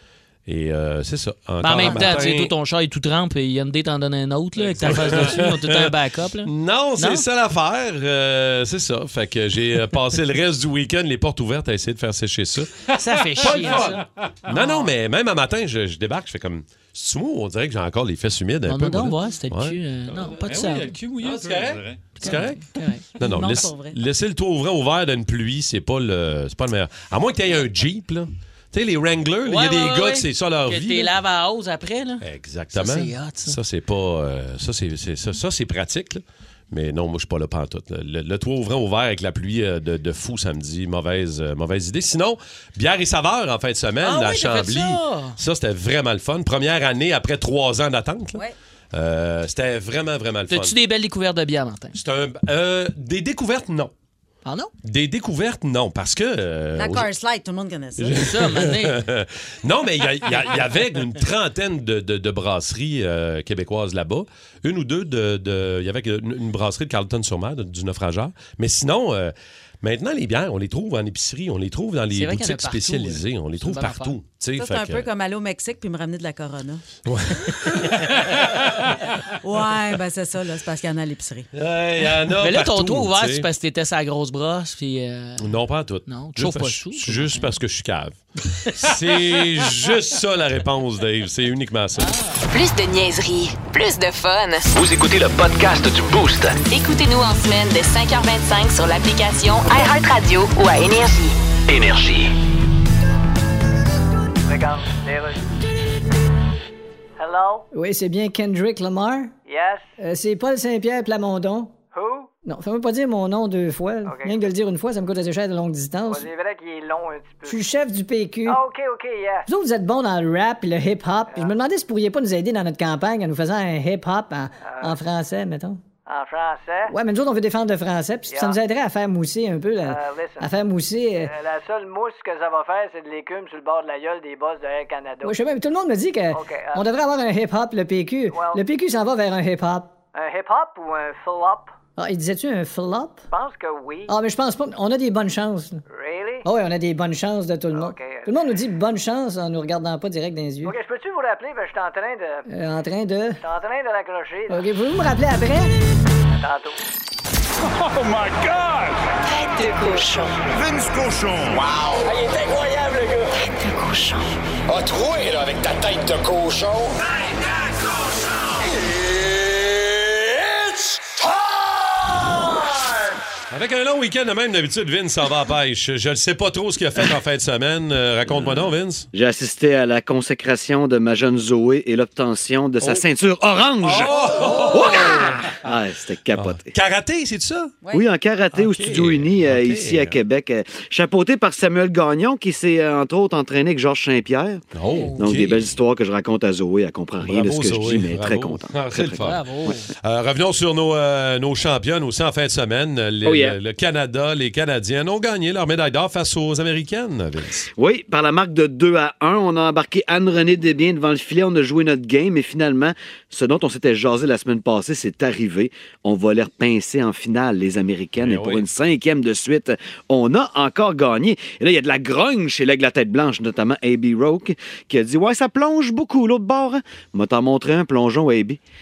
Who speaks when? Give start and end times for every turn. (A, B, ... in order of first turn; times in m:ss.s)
0:00.5-0:02.5 A
0:01.6-0:07.2 B
0:04.8-0:05.9 A
0:06.4-0:12.8 A
0:12.9-0:14.9 B
0:13.4-0:19.8 A
0:13.4-0:14.3 C
0:18.7-0:21.0 B
0:20.2-0:22.2 C
0:21.2-0:31.1 A
0:22.2-0:23.0 B
0:23.2-0:24.0 D
0:29.4-0:33.6 B
0:32.2-0:50.7 A
0:44.0-0:45.4 B
0:50.5-0:52.0 B
0:51.9-0:53.9 A
0:54.4-0:54.7 B
0:54.8-0:57.1 A
0:56.8-0:58.3 D
0:58.0-1:15.1 A
0:58.1-0:59.0 B
1:12.1-1:14.2 B
1:14.6-1:16.8 D
1:17.1-1:18.4 A
1:19.4-1:21.5 D
1:21.5-1:23.5 A
1:22.4-1:25.5 B
1:25.4-1:32.2 A
1:26.1-1:27.5 B
1:32.0-1:32.4 B
1:32.5-1:34.7 E
1:34.7-1:36.6 F
1:36.7-1:41.4 E
1:41.7-1:42.3 F
1:44.5-1:45.4 G
1:47.2-1:47.7 G
1:47.7-1:49.3 H
1:49.5-1:49.9 G
1:50.0-1:51.7 H
1:51.9-1:52.3 G
1:52.4-1:56.3 H
1:54.1-1:54.5 G
1:56.1-1:57.6 G
1:57.4-1:58.6 H
1:58.5-1:59.5 G
1:59.5-2:05.8 H
2:04.6-2:05.0 G
2:06.1-2:06.9 G
2:06.9-2:11.3 H
2:08.3-2:08.6 G
2:09.8-2:10.5 G
2:11.2-2:15.4 G
2:15.2-2:19.9 H
2:16.3-2:16.8 G
2:18.3-2:18.6 G
2:20.1-2:21.7 G
2:22.0-2:23.2 H
2:23.3-2:24.1 G
2:24.1-2:25.8 H
2:25.9-2:26.5 G
2:26.4-2:30.8 H
2:27.7-2:28.3 G
2:30.6-2:32.5 G
2:32.5-2:33.4 H
2:33.4-2:34.6 G
2:34.5-2:35.7 H
2:36.4-2:36.8 G
2:41.4-2:43.3 I
2:44.7-2:47.0 I
2:48.9-2:51.3 I
2:53.5-2:59.1 A
2:58.4-2:58.6 J
2:59.1-3:06.7 J
3:03.8-3:05.5 A
3:06.3-3:07.7 A
3:07.8-3:08.1 D
3:07.9-3:14.6 J
3:08.5-3:10.2 A
3:14.7-3:15.7 A
3:14.9-3:15.2 B
3:15.2-3:19.3 J
3:17.2-3:27.7 A
3:19.2-3:19.9 B
3:23.2-3:23.6 J
3:27.8-3:48.6 J
3:38.2-3:38.7 A